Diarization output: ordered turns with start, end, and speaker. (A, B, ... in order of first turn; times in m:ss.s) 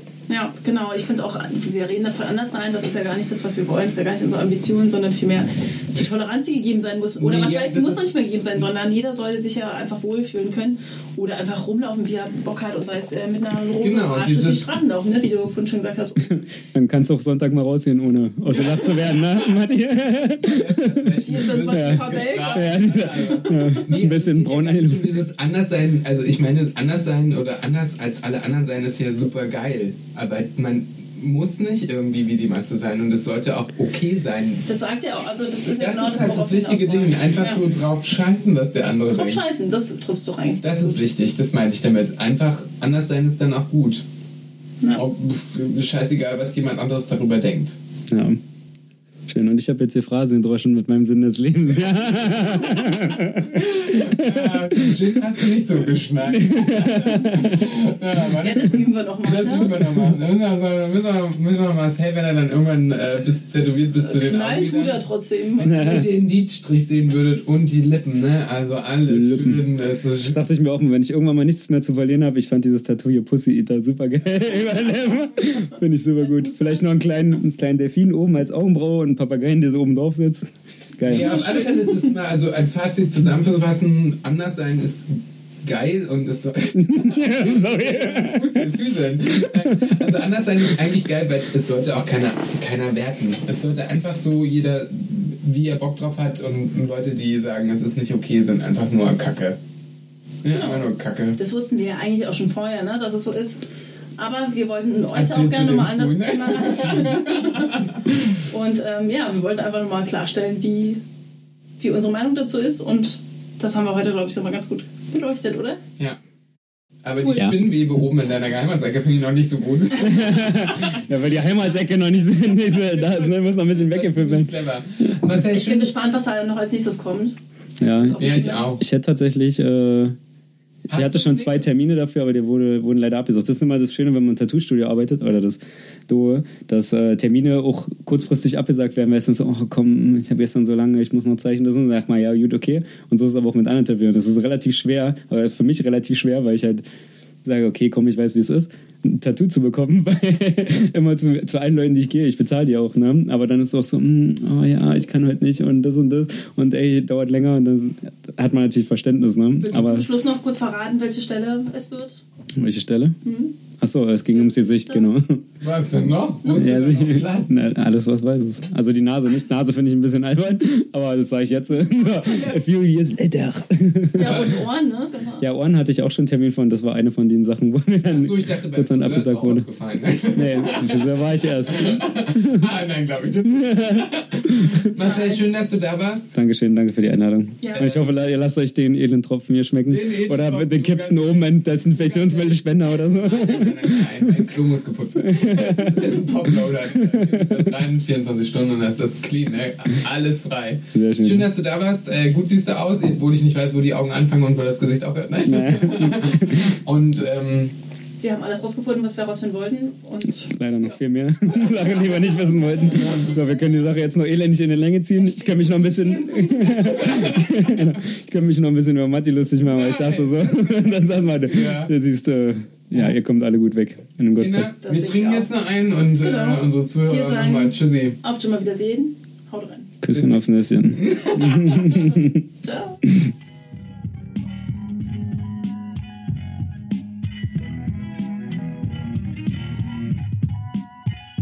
0:00.3-0:16.4 A
0:07.2-0:08.1 B
0:13.8-0:14.7 B
0:16.7-0:25.2 C
0:20.4-0:34.6 B
0:21.2-0:23.8 A
0:34.6-0:37.6 A
0:35.8-0:39.4 B
0:39.1-0:41.0 A
0:40.6-0:44.0 B
0:44.9-0:47.8 B
0:48.1-0:48.4 C
0:49.3-0:55.2 C
0:53.5-1:05.0 B
0:56.2-0:57.8 C
0:56.6-0:57.6 A
0:58.2-0:59.8 A
1:04.0-1:06.0 A
1:05.6-1:10.4 B
1:05.6-1:06.0 C
1:09.1-1:09.6 C
1:10.2-1:21.5 C
1:16.3-1:16.8 A
1:21.0-1:39.6 B
1:21.1-1:22.1 A
1:26.7-1:28.7 C
1:29.2-1:30.2 C
1:40.4-1:41.4 B
1:40.5-1:43.6 A
1:44.2-1:51.0 A
1:45.1-1:48.3 B
1:51.8-1:55.8 A
1:57.0-2:00.7 B
1:57.2-1:57.5 A
1:57.3-1:57.6 C
2:00.0-2:05.3 C
2:02.6-2:05.9 B
2:05.3-2:08.6 A
2:07.8-2:10.2 C
2:08.2-2:08.8 B
2:10.9-2:26.8 C
2:10.9-2:11.6 B
2:27.4-2:40.1 C
2:39.6-2:42.2 A
2:42.5-2:43.2 C
2:43.2-2:43.5 A
2:43.8-2:45.4 C
2:44.3-2:45.1 A
2:45.6-2:47.5 B
2:46.5-2:54.5 C
2:52.0-2:52.6 A
2:54.1-2:55.5 A
2:54.2-2:54.5 B
2:55.4-2:59.6 C
2:58.1-3:06.3 B
3:00.3-3:02.7 C
3:03.4-3:04.9 C
3:04.9-3:05.5 A
3:06.3-3:14.5 C
3:07.6-3:07.9 A
3:07.7-3:08.1 B
3:09.9-3:27.7 B
3:15.2-3:17.7 C
3:20.9-3:21.5 C
3:25.4-3:26.7 C
3:28.2-3:30.9 A
3:30.4-3:44.7 C
3:31.6-3:33.2 A
3:35.8-3:37.4 A
3:37.0-3:37.4 B
3:39.6-3:41.9 B
3:44.4-3:48.2 B
3:44.8-3:45.5 A
3:46.2-3:49.9 A
3:50.0-3:52.4 C
3:50.1-3:50.4 B
3:51.0-3:52.1 B
3:52.6-3:53.0 A
3:53.0-3:53.3 C